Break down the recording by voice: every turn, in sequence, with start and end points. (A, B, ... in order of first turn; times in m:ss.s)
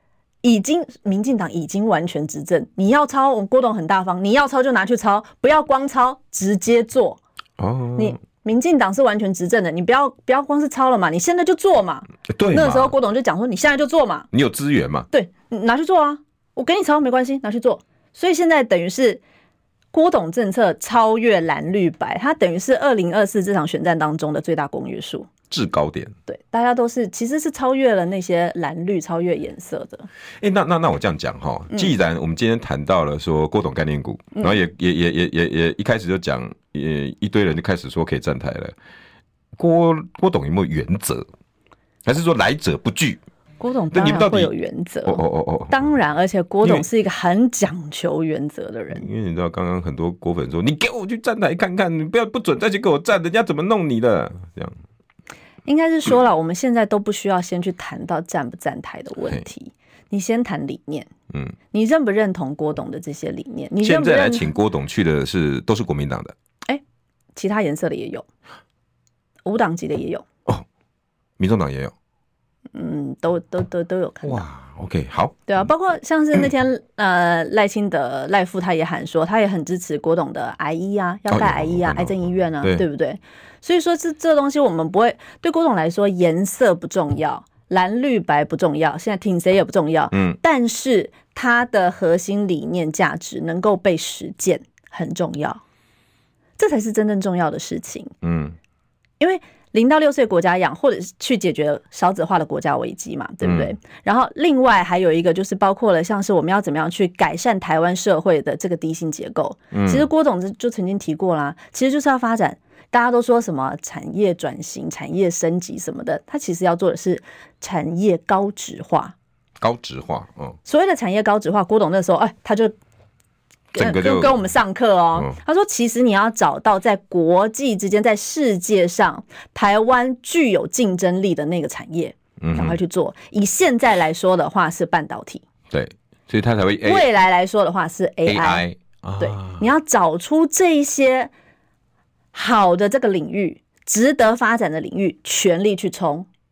0:00.4-0:07.2 A
0:07.6-0:08.2 B
0:08.0-0:14.3 A
0:12.3-0:12.9 B
0:14.3-0:15.1 B
0:15.1-0:19.2 A
0:19.9-0:25.3 A
0:25.5-0:26.1 B
0:26.3-0:30.1 A
0:30.4-0:38.7 B
0:39.6-0:41.3 B
0:42.0-0:43.2 B
0:43.6-0:49.0 A
0:43.9-0:44.5 B
0:45.0-0:45.9 B
0:48.9-0:54.8 B
0:55.6-1:01.1 A
1:01.7-1:04.5 A
1:03.8-1:06.3 B
1:07.3-1:08.2 A
1:09.4-1:10.2 A
1:11.4-1:11.9 B
1:12.7-1:14.4 A
1:14.2-1:15.4 B
1:15.5-1:35.6 A
1:21.3-1:22.8 B
1:30.1-1:30.4 B
1:36.6-1:38.1 A
1:38.2-1:38.5 B
1:39.2-1:59.1 A
1:43.4-1:43.7 B
1:49.7-1:50.1 B
1:59.6-2:00.6 B
2:00.6-2:02.7 A
2:03.7-2:15.4 A
2:03.7-2:04.4 B
2:12.4-2:12.8 B
2:15.7-2:17.0 B
2:16.8-2:18.6 A
2:18.2-2:19.6 B
2:19.2-2:21.3 A
2:22.3-2:26.2 A